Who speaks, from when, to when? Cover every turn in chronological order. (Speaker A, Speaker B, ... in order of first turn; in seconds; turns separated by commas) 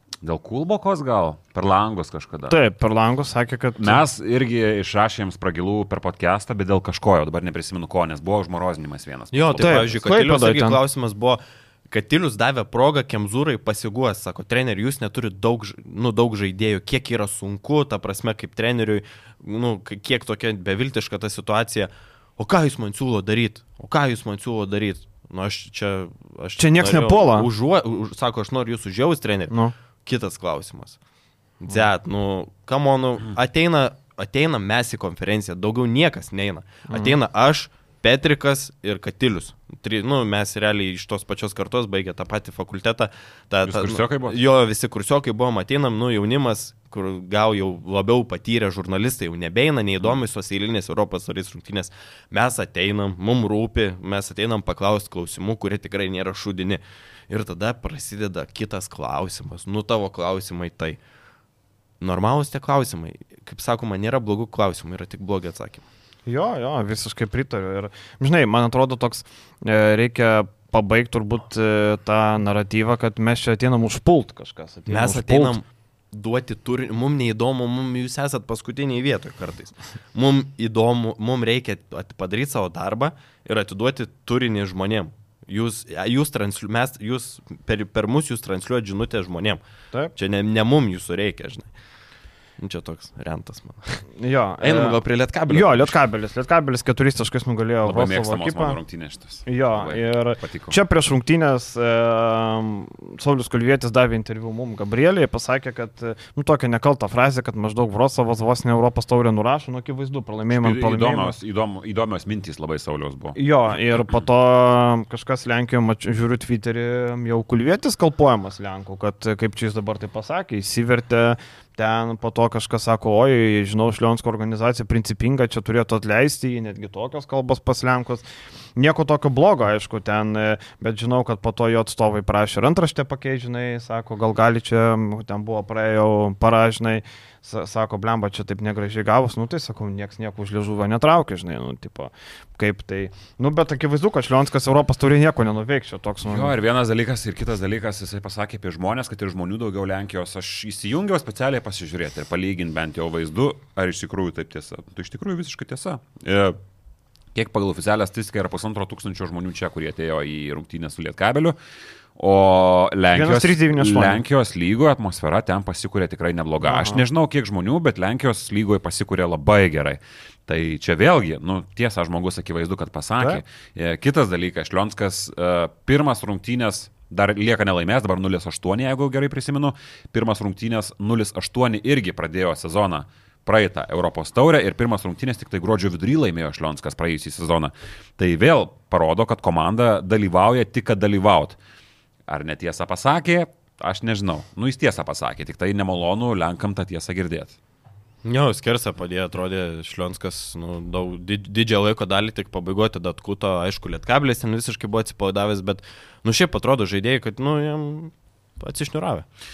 Speaker A: 0.2-2.6, Speaker B: 2.5-4.0, Speaker A: 3.8-9.9, Speaker C: 9.3-31.0, Speaker B: 9.6-10.8, Speaker B: 26.6-27.5, Speaker C: 31.6-61.0, Speaker B: 36.9-37.1, Speaker A: 43.6-44.4, Speaker C: 62.0-65.8, Speaker B: 66.3-75.6, Speaker C: 74.9-89.6, Speaker C: 90.2-91.7, Speaker C: 92.6-94.0, Speaker B: 94.2-98.8, Speaker C: 94.6-96.0, Speaker A: 97.8-100.7, Speaker B: 99.5-111.4, Speaker A: 110.5-113.4, Speaker B: 113.3-128.2, Speaker B: 128.8-146.5, Speaker A: 146.2-156.6, Speaker A: 157.3-161.6, Speaker A: 162.2-191.6, Speaker B: 163.1-164.2, Speaker B: 166.7-167.0, Speaker A: 192.3-197.6, Speaker C: 198.2-209.3